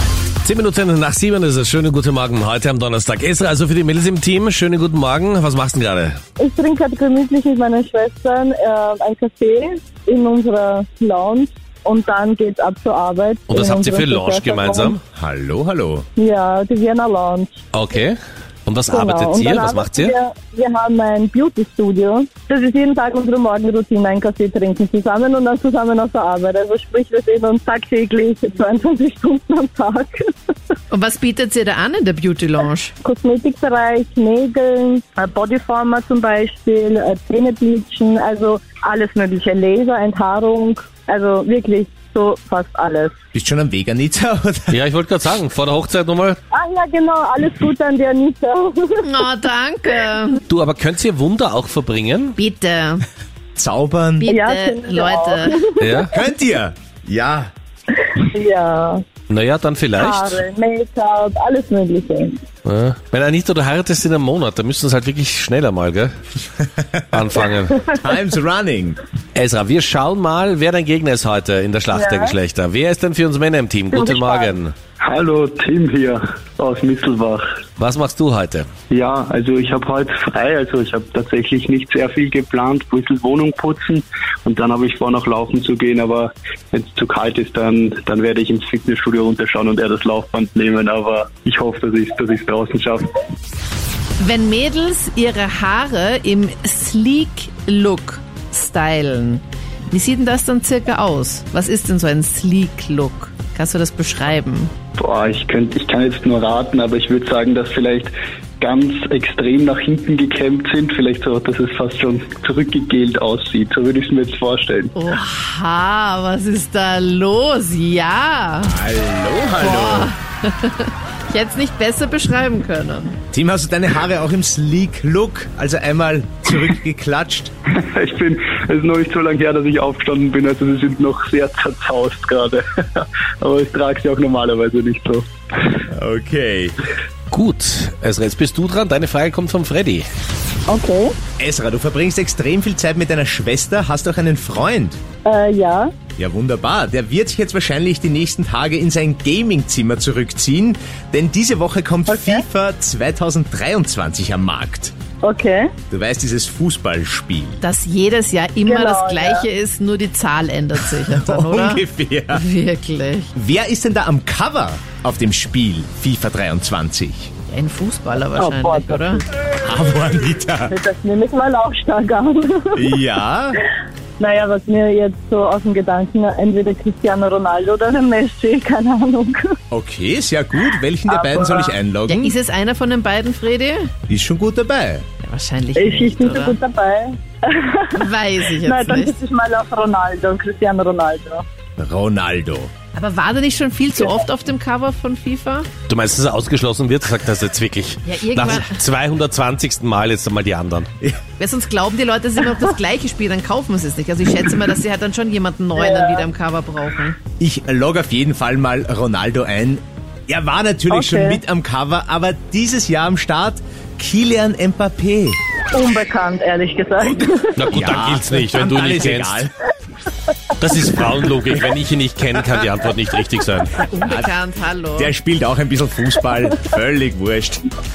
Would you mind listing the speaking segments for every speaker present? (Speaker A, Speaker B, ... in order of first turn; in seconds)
Speaker A: 0.4-6.2, 13.5-15.0, 17.7-20.1, 44.7-46.4, 50.5-52.4, 55.8-56.1, 59.3-60.4, 62.6-66.1, 67.1-67.9, 69.3-74.7, 77.8-78.7, 137.3-140.1, 195.9-200.9, 217.6-219.5, 220.6-223.9
Speaker B: 6.4-15.0, 16.2-17.6, 18.9-30.3, 33.0-43.1, 46.5-49.1, 54.3-56.1, 58.1-59.0, 60.0-62.4, 71.9-72.4, 73.9-74.6, 140.7-141.1, 145.2-145.9, 152.1-152.4, 155.2-155.7, 158.7-159.5, 168.4-169.2, 170.7-173.0, 174.2-179.6, 181.1-181.7, 185.8-188.1, 188.6-191.4, 205.8-206.3, 210.9-211.4, 215.7-217.6
Speaker C: 15.2-16.1, 43.3-44.8, 53.6-54.3, 56.0-57.5, 66.6-67.2, 67.9-69.0, 118.6-120.1, 123.3-127.5, 135.9-136.8, 141.4-145.0, 146.2-154.9, 155.9-157.6, 161.2-162.4, 163.3-167.3, 169.6-170.7, 172.8-173.6, 179.7-182.3, 184.1-185.1, 191.8-192.7, 207.4-215.4, 217.7-219.5, 224.0-224.3, 225.0-227.6
Speaker D: 30.9-32.9, 49.0-50.4, 52.4-53.0, 54.2-55.6, 94.2-104.7, 115.0-118.8, 119.6-123.2, 157.6-163.3, 167.5-169.2, 182.1-183.9, 185.2-186.6, 187.9-189.2, 192.9-195.7, 198.1-198.8, 201.4-207.2, 223.9-225.1
Speaker E: 75.0-77.5, 78.9-93.1, 105.0-114.9, 127.7-135.7